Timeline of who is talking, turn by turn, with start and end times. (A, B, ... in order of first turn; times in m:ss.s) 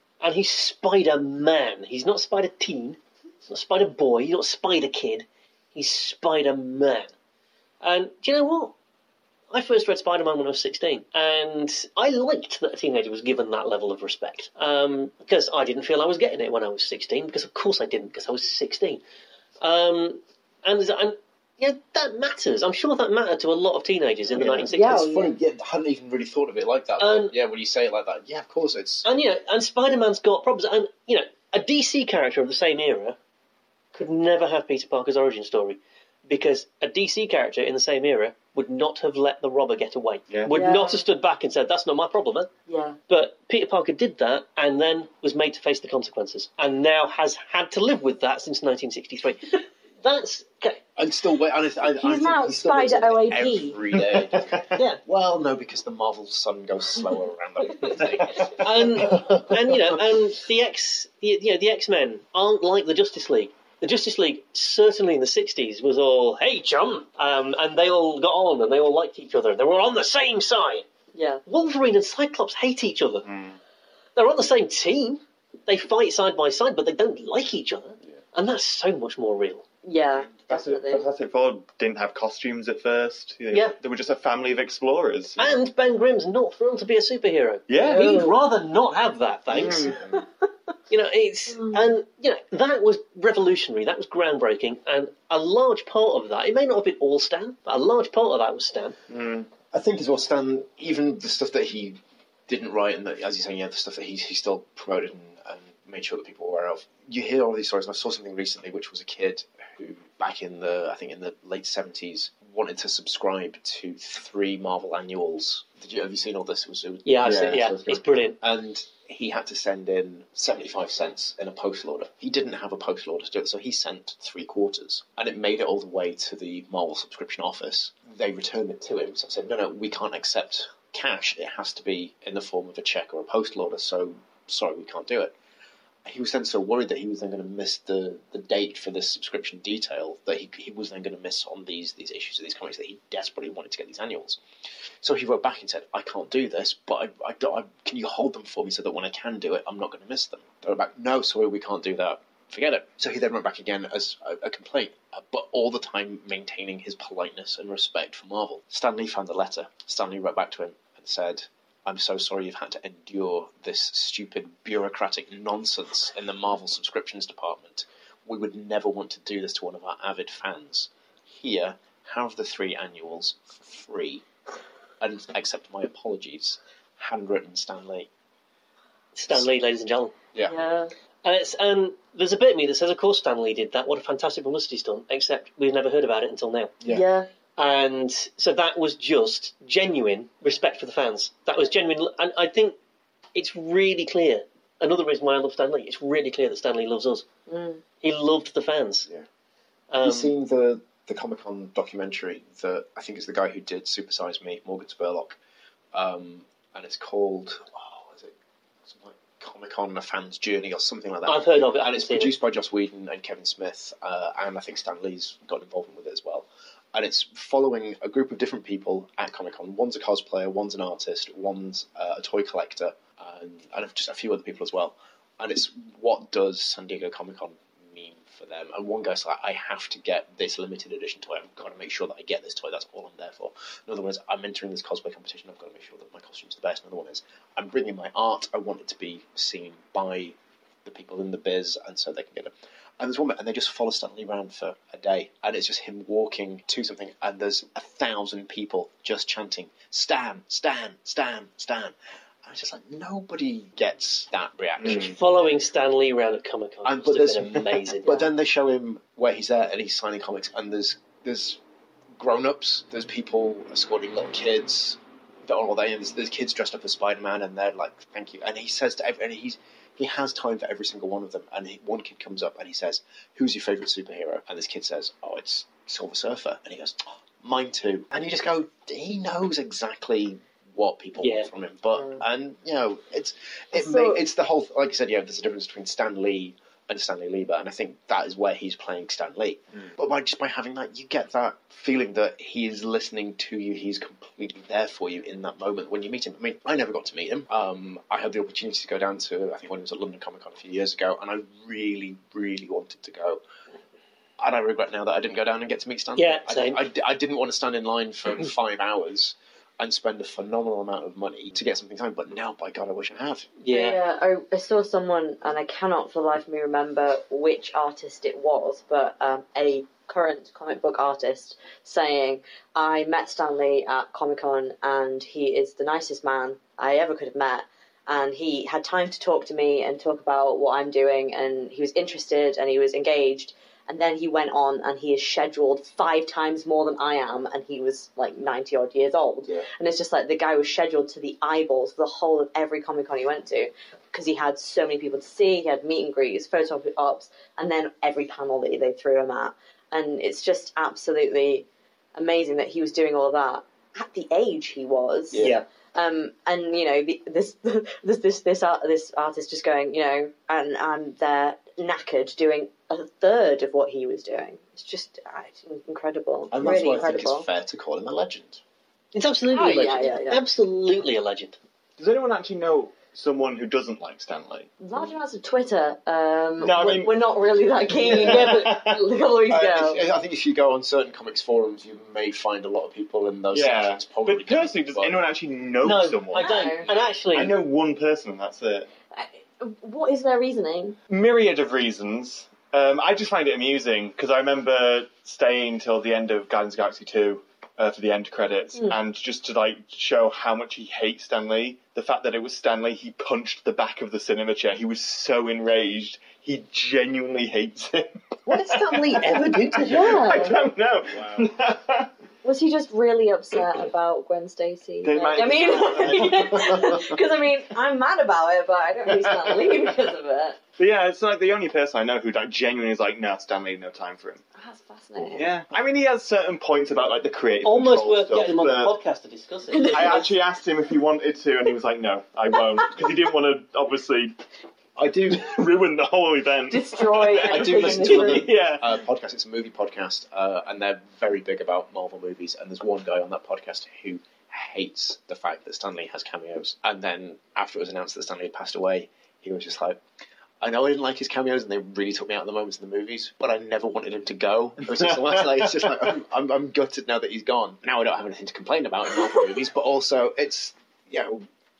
0:00.2-0:07.1 A
0:07.8-0:08.7 A
0:09.5-0:19.0 A
0:19.6-0:25.0 A
0:24.3-0:29.1 B
0:24.7-0:25.3 C
0:27.0-0:27.3 A
0:29.0-0:33.2 A
0:33.9-0:42.5 A
0:40.5-0:41.0 C
0:42.7-0:43.0 C
0:43.1-0:50.8 A
0:51.0-1:00.0 B
0:52.0-0:53.8 C
0:54.0-0:54.8 D
0:58.0-0:58.5 D
0:58.5-1:10.8 A
1:11.1-1:11.4 C
1:11.5-1:13.3 A
1:13.2-1:13.6 D
1:14.2-1:19.6 A
1:19.8-1:21.0 C
1:20.5-1:25.6 D
1:25.4-1:30.0 A
1:27.7-1:28.2 D
1:27.8-1:28.3 C
1:29.5-1:30.0 D
1:30.9-1:39.0 A
1:39.1-1:39.5 D
1:39.7-2:15.3 B
1:57.0-1:58.4 A
2:16.0-2:24.4 B
2:25.0-2:54.2 B
2:55.0-2:58.1 B
2:59.1-3:00.1 A
3:00.4-3:00.9 C
3:01.2-3:06.8 A
3:06.9-3:07.3 C
3:07.6-3:12.8 A
3:13.3-3:17.2 A
3:17.5-3:17.8 C
3:18.0-3:19.1 A
3:19.9-3:20.3 A
3:20.0-3:25.4 B
3:25.9-3:28.3 B
3:28.8-4:15.2 B
3:31.2-3:32.3 A
4:14.8-4:18.2 A
4:16.8-4:21.6 B
4:22.2-5:03.4 B
4:41.2-4:41.5 A
4:43.7-4:44.2 C
5:04.4-5:13.5 B
5:06.2-5:06.8 A
5:13.6-5:14.0 A
5:13.7-6:07.5 C
5:55.3-5:55.6 B
6:06.5-6:08.6 B
6:09.1-6:11.6 A
6:09.5-6:10.4 C
6:12.0-6:14.7 D
6:14.8-6:20.0 C
6:16.6-6:17.2 D
6:18.0-6:19.0 D
6:18.1-6:18.5 B
6:19.5-6:25.2 B
6:23.5-6:26.8 D
6:25.8-6:27.6 A
6:26.4-6:26.9 C
6:27.3-6:28.9 D
6:29.1-6:31.0 C
6:31.1-6:52.1 D
6:48.4-6:50.5 A
6:49.9-6:50.6 C
6:51.1-6:51.5 B
6:52.4-7:00.6 C
6:55.0-6:57.0 D
6:59.1-6:59.9 D
7:00.8-7:04.4 D
7:04.6-7:05.4 C
7:05.4-7:08.9 D
7:07.6-7:10.2 A
7:09.7-7:10.3 C
7:09.9-7:14.4 D
7:15.0-7:15.6 B
7:15.3-7:18.9 D
7:16.7-7:18.5 C
7:17.4-7:30.0 B
7:30.6-7:41.4 B
7:35.3-7:35.9 D